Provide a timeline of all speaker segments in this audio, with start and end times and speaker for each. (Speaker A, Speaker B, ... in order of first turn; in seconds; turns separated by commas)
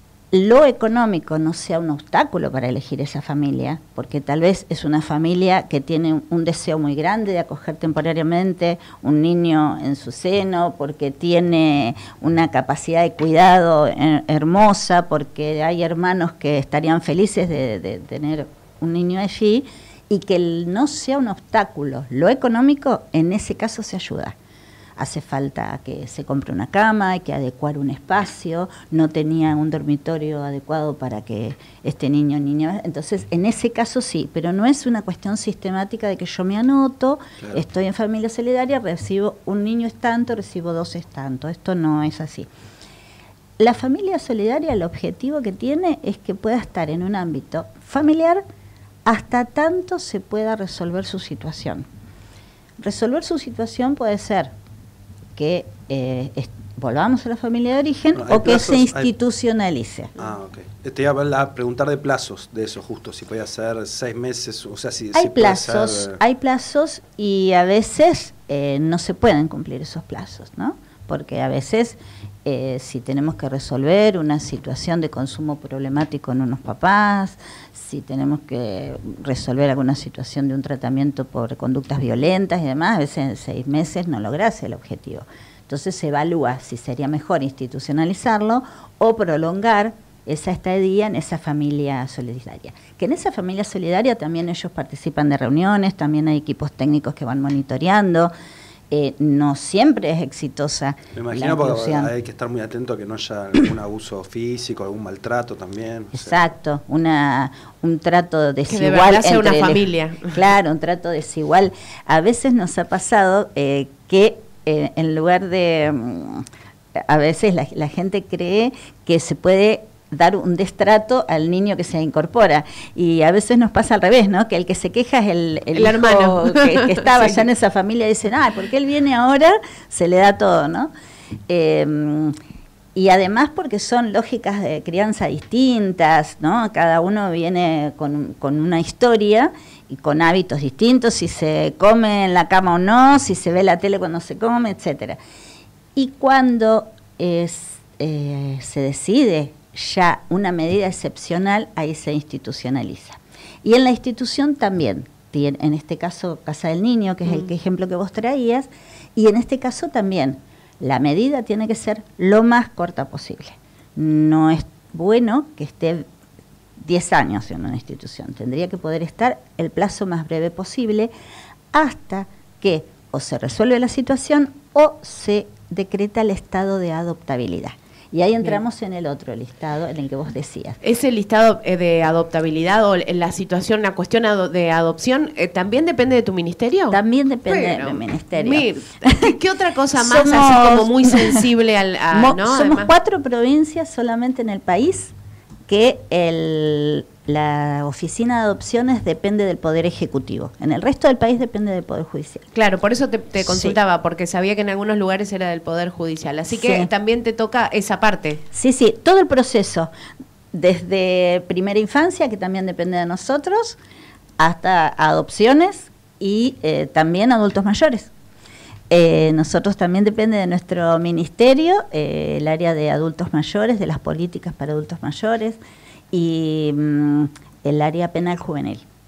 Speaker A: 0.3-24.4, Speaker A: 25.0-42.5, Speaker A: 43.6-48.4, Speaker A: 49.0-51.9, Speaker A: 52.8-54.5, Speaker A: 55.4-60.1, Speaker B: 58.1-59.1, Speaker B: 60.2-66.2, Speaker A: 65.1-98.3, Speaker A: 98.9-102.1, Speaker B: 101.2-106.4, Speaker A: 106.2-130.9, Speaker C: 108.7-110.4, Speaker C: 125.7-127.4, Speaker A: 131.5-132.4, Speaker A: 132.9-145.2, Speaker A: 145.9-166.1, Speaker A: 166.8-171.1, Speaker A: 171.7-180.8, Speaker C: 180.8-192.9, Speaker A: 186.9-189.4, Speaker A: 189.9-191.4, Speaker A: 192.1-195.1, Speaker A: 195.7-202.5, Speaker C: 202.5-208.4, Speaker A: 203.4-203.8, Speaker A: 206.5-206.9, Speaker A: 208.5-209.9, Speaker A: 210.5-213.8, Speaker A: 214.4-218.1, Speaker A: 218.9-225.6, Speaker A: 226.1-228.8